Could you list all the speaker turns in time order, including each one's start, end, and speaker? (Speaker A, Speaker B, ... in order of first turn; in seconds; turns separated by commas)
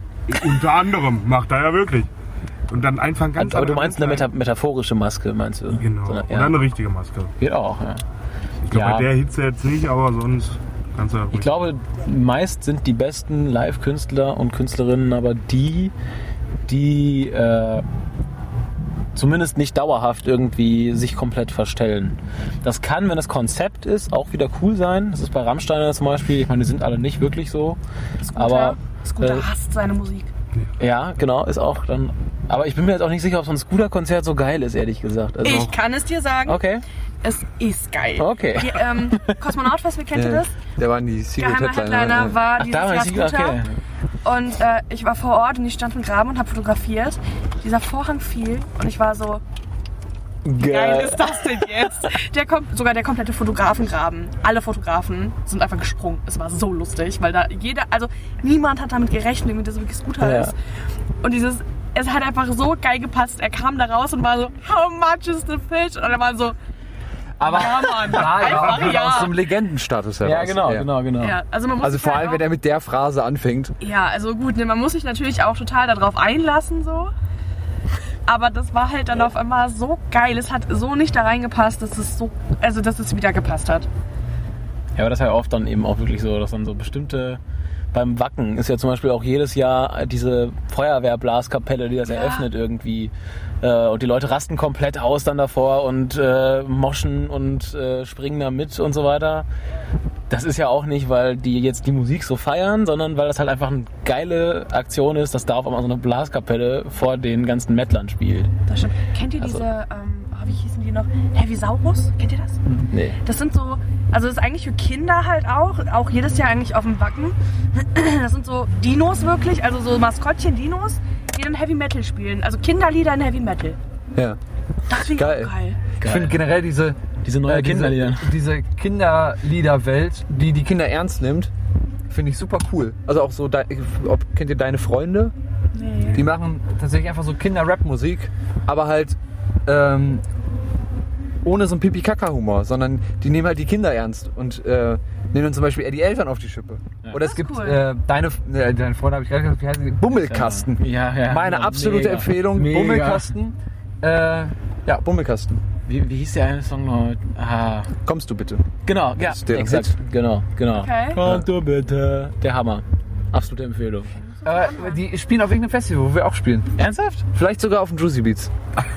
Speaker A: 0.3-2.1, Speaker A: 2.7-4.3, Speaker B: 3.4-6.6, Speaker A: 5.7-7.3, Speaker B: 7.4-8.0, Speaker A: 8.7-11.6, Speaker B: 8.7-9.1, Speaker B: 11.3-15.9, Speaker B: 16.7-17.8, Speaker B: 19.1-27.8, Speaker C: 28.3-30.3, Speaker B: 28.3-29.4, Speaker B: 30.8-35.7, Speaker C: 35.4-36.6, Speaker B: 36.5-36.8, Speaker C: 37.2-40.6, Speaker B: 38.2-39.4, Speaker D: 40.1-42.4, Speaker C: 41.4-43.6, Speaker B: 42.6-43.7, Speaker C: 44.2-49.4, Speaker B: 50.5-51.6, Speaker C: 50.6-60.5, Speaker B: 60.2-60.5, Speaker C: 61.2-66.5, Speaker D: 67.4-70.9, Speaker C: 67.4-69.4, Speaker B: 70.2-71.4, Speaker C: 71.2-72.4, Speaker D: 71.8-73.8, Speaker C: 73.8-77.1, Speaker C: 78.3-83.9, Speaker B: 85.0-87.4, Speaker B: 87.9-99.4, Speaker C: 92.1-92.5, Speaker B: 100.3-108.5, Speaker C: 108.7-123.8, Speaker B: 112.9-113.2, Speaker C: 124.9-125.8, Speaker D: 124.9-131.5, Speaker B: 126.0-126.4, Speaker B: 127.2-128.3, Speaker D: 132.1-135.3, Speaker C: 135.7-136.2, Speaker D: 136.1-140.2, Speaker D: 141.4-155.6, Speaker C: 147.1-147.8, Speaker B: 150.2-153.3, Speaker B: 155.9-157.9, Speaker D: 158.0-159.9, Speaker B: 158.8-164.1, Speaker C: 160.8-161.2, Speaker D: 161.2-161.4, Speaker C: 164.2-165.0, Speaker D: 164.4-166.7, Speaker B: 166.8-167.2, Speaker D: 167.3-168.5